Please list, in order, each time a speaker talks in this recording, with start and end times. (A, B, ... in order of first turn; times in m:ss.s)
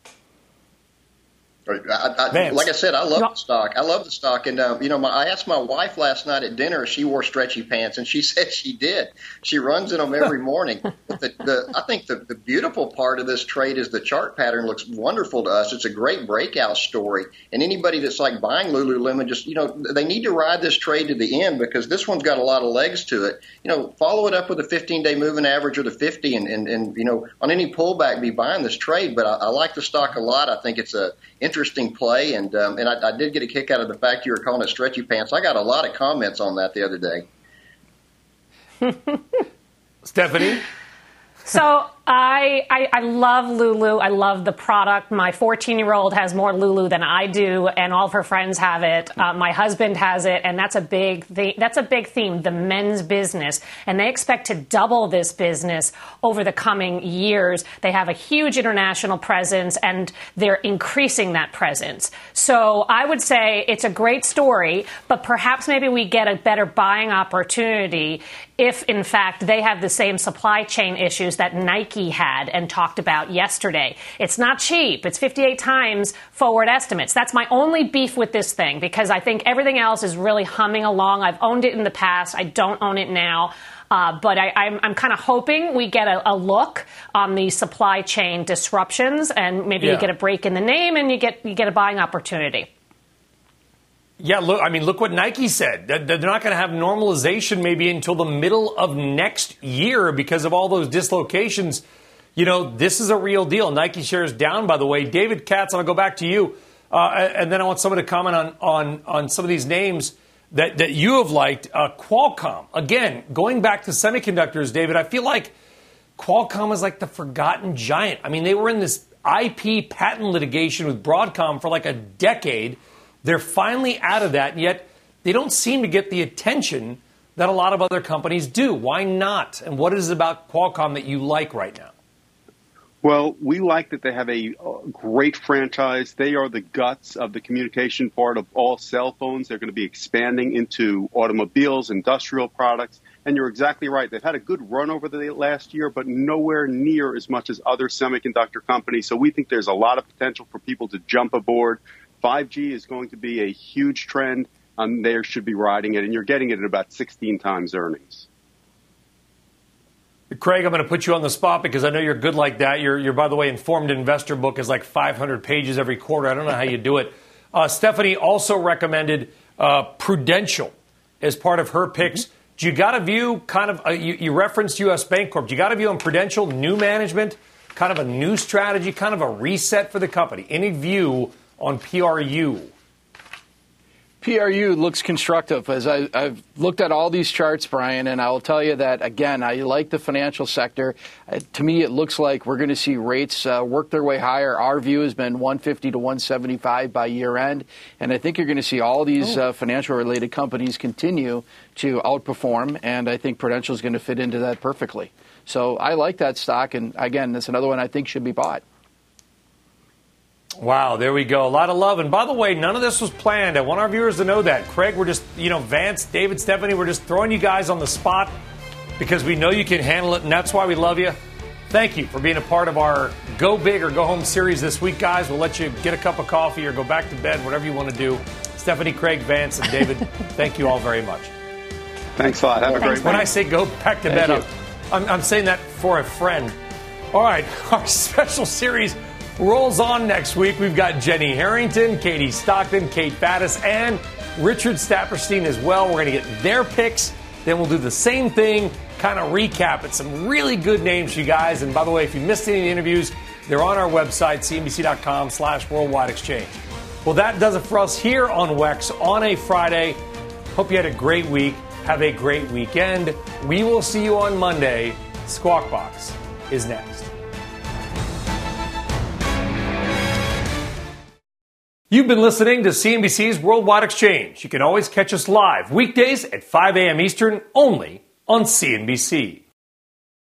0:01.7-0:37.3 A
0:02.3-0:02.7 B
0:40.0-0:40.6 B
0:41.5-1:32.7 C
1:29.8-1:30.1 B
1:34.2-1:41.8 B
1:42.4-1:55.5 B
1:56.2-2:11.9 B
2:13.0-2:38.3 D
2:40.3-3:02.7 B
3:04.2-3:28.6 E
3:30.6-3:38.3 B
3:39.0-3:41.2 B
3:41.7-3:51.3 B
3:52.2-3:53.3 D
3:53.0-3:56.6 B
3:54.1-3:54.4 D
3:57.1-4:20.0 B
4:20.5-4:27.1 B
4:31.9-4:39.4 B